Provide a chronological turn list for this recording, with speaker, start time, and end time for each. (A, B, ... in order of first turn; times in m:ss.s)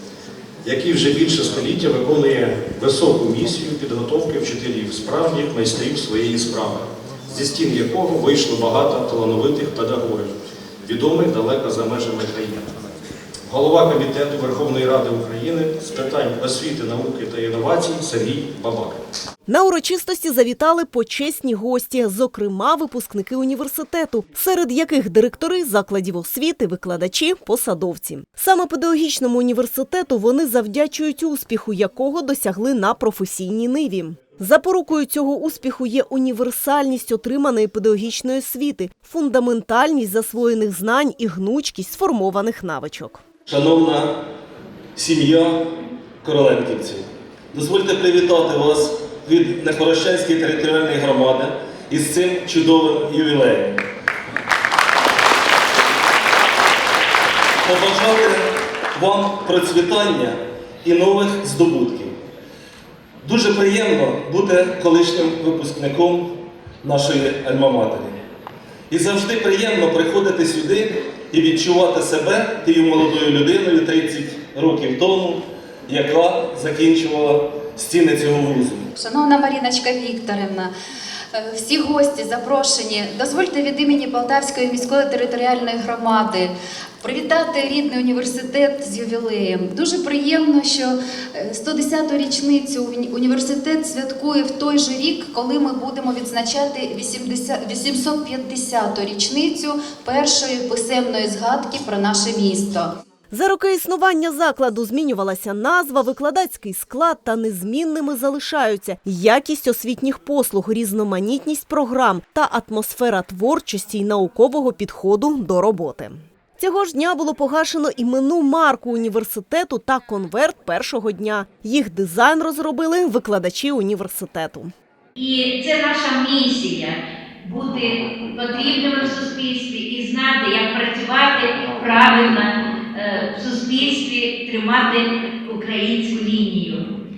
0:00.6-0:10.3 A
0:10.8-0:12.6 A
0:13.5-0:19.0 A
0:19.5-0:43.2 B
0:43.4-0:44.1 C
0:45.0-0:45.6 C
0:46.2-0:53.8 C
0:57.6-1:02.1 C
1:03.2-1:08.2 C
1:08.9-1:18.9 C
1:19.0-1:20.7 D
1:21.3-1:42.9 D
1:43.3-2:04.7 B
2:05.2-2:16.8 E